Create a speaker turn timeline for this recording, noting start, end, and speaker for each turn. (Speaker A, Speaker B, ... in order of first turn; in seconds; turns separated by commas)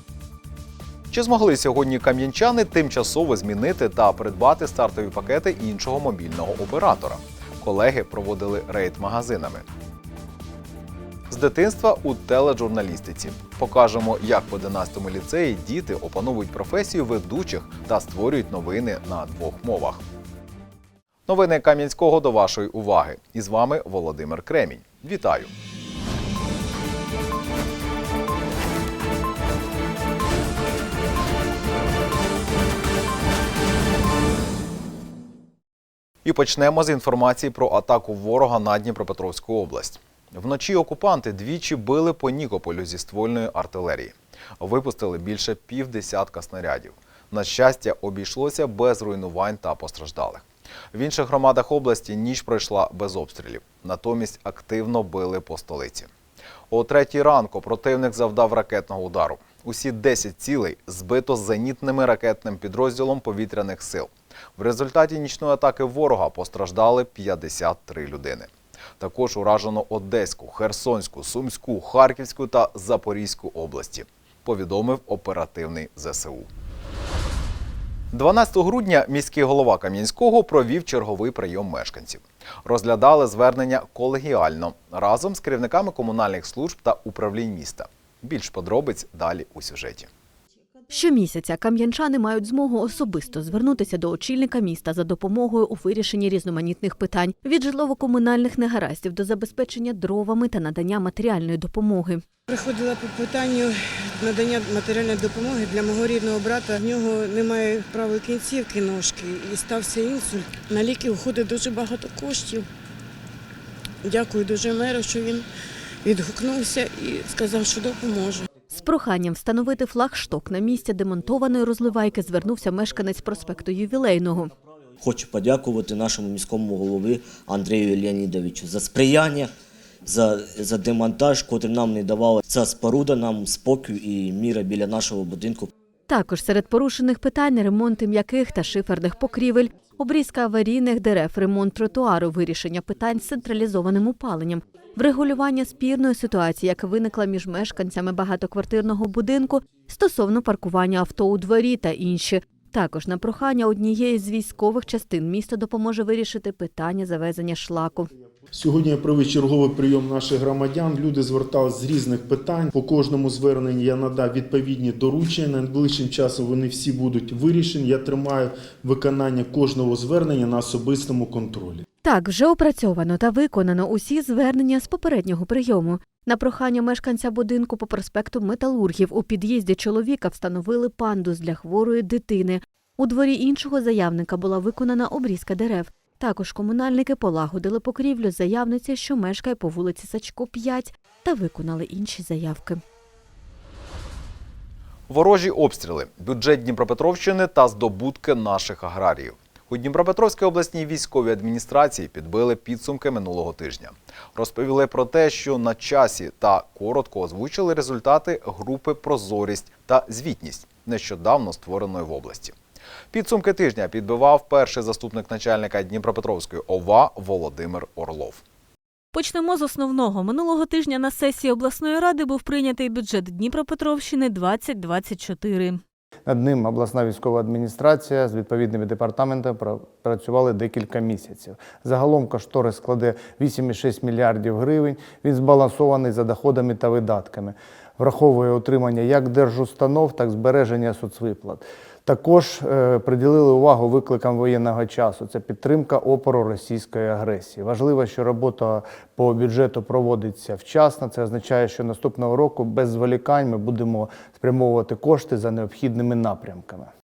Speaker A: 1.1-9.6, Speaker A: 11.3-20.0, Speaker A: 21.3-25.5, Speaker A: 36.2-56.1, Speaker A: 56.7-76.5, Speaker A: 78.1-90.1, Speaker B: 90.9-102.2, Speaker C: 102.5-112.7, Speaker C: 114.0-115.5, Speaker C: 116.0-118.5, Speaker B: 118.7-124.5, Speaker D: 125.0-129.5, Speaker D: 130.1-135.7, Speaker B: 136.1-158.1, Speaker E: 158.5-171.8, Speaker B: 172.0-192.8, Speaker A: 195.1-212.5, Speaker A: 213.1-218.4, Speaker F: 219.1-225.8, Speaker G: 226.3-256.9